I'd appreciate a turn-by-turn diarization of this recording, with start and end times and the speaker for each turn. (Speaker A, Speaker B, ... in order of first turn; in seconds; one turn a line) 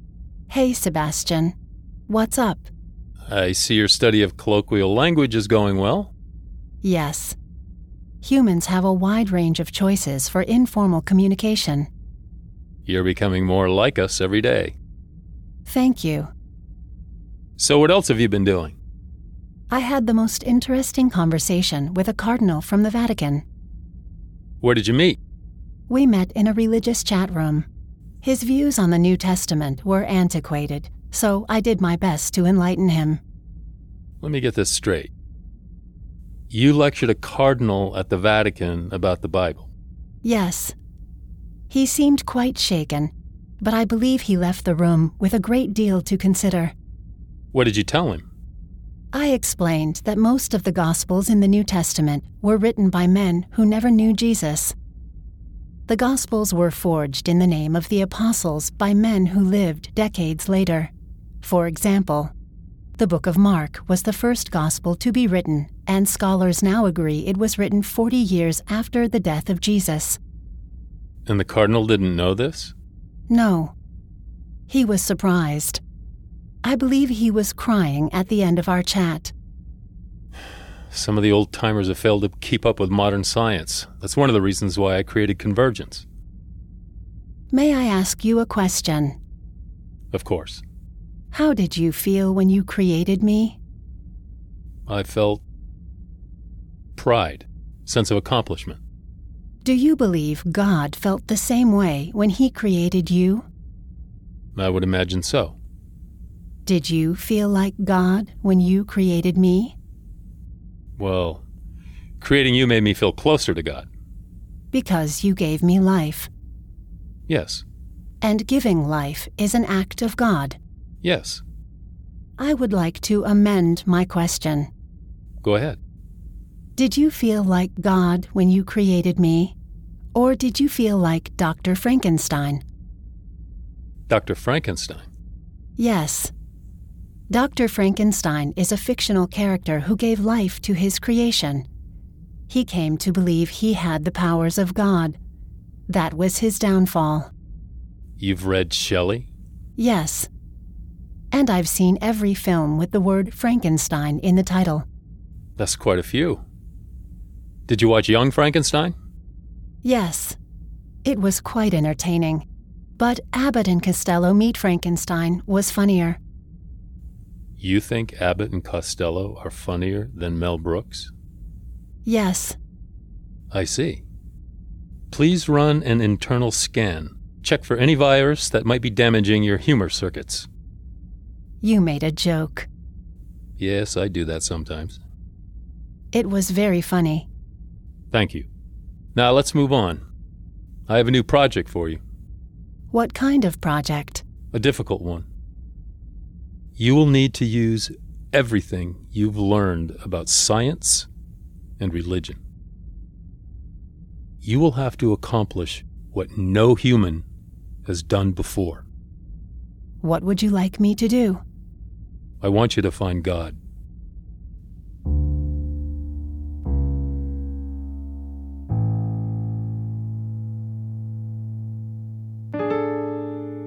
Speaker A: 0.5-1.6
Speaker A: 2.1-2.7
Speaker B: 3.3-6.1
Speaker A: 6.8-7.4
Speaker A: 8.2-11.9
Speaker B: 12.9-14.8
Speaker A: 15.7-16.3
Speaker B: 17.6-18.8
Speaker A: 19.7-23.4
Speaker B: 24.6-25.2
Speaker A: 25.9-27.7
Speaker A: 28.2-33.2
Speaker B: 34.2-35.1
Speaker B: 36.5-39.7
Speaker A: 40.2-40.8
Speaker A: 41.7-46.7
Speaker B: 47.5-48.3
Speaker A: 49.1-54.7
Speaker A: 55.9-62.3
Speaker A: 63.0-70.2
Speaker B: 71.3-72.7
Speaker A: 73.3-73.7
Speaker A: 74.7-75.8
Speaker A: 76.6-79.3
Speaker B: 80.9-86.0
Speaker A: 87.5-89.2
Speaker B: 90.1-90.6
Speaker A: 91.3-93.6
Speaker B: 94.9-95.4
Speaker B: 97.0-98.8
Speaker A: 99.6-103.5
Speaker B: 104.5-105.6
Speaker A: 106.7-109.8
Speaker B: 111.0-111.4
Speaker B: 112.2-113.9
Speaker A: 114.7-116.3
Speaker B: 117.3-117.6
Speaker A: 118.2-120.6
Speaker B: 121.0-121.4
Speaker A: 122.4-124.7
Speaker B: 125.4-125.8
Speaker A: 126.8-129.6
Speaker A: 130.1-132.6
Speaker B: 134.1-135.1
Speaker A: 135.8-136.3
Speaker A: 137.3-141.7
Speaker A: 142.5-145.2
Speaker A: 145.9-147.3
Speaker B: 148.2-149.3
Speaker A: 149.8-150.3
Speaker A: 151.3-154.9
Speaker B: 155.6-156.4
Speaker B: 157.7-158.9
Speaker A: 159.8-160.4
Speaker A: 161.0-162.4
Speaker A: 163.0-166.2
Speaker B: 167.6-171.1
Speaker A: 172.1-172.6
Speaker B: 173.5-174.0
Speaker B: 175.1-180.5
Speaker A: 181.6-182.7
Speaker B: 183.6-185.0
Speaker A: 186.1-187.3
Speaker B: 188.1-188.5
Speaker B: 189.2-190.0
Speaker B: 190.9-192.0
Speaker A: 192.9-194.2
Speaker B: 194.5-195.2
Speaker B: 196.8-201.1
Speaker B: 201.8-202.4
Speaker B: 204.4-207.2
Speaker B: 207.8-208.9
Speaker A: 210.0-211.4
Speaker B: 212.4-213.6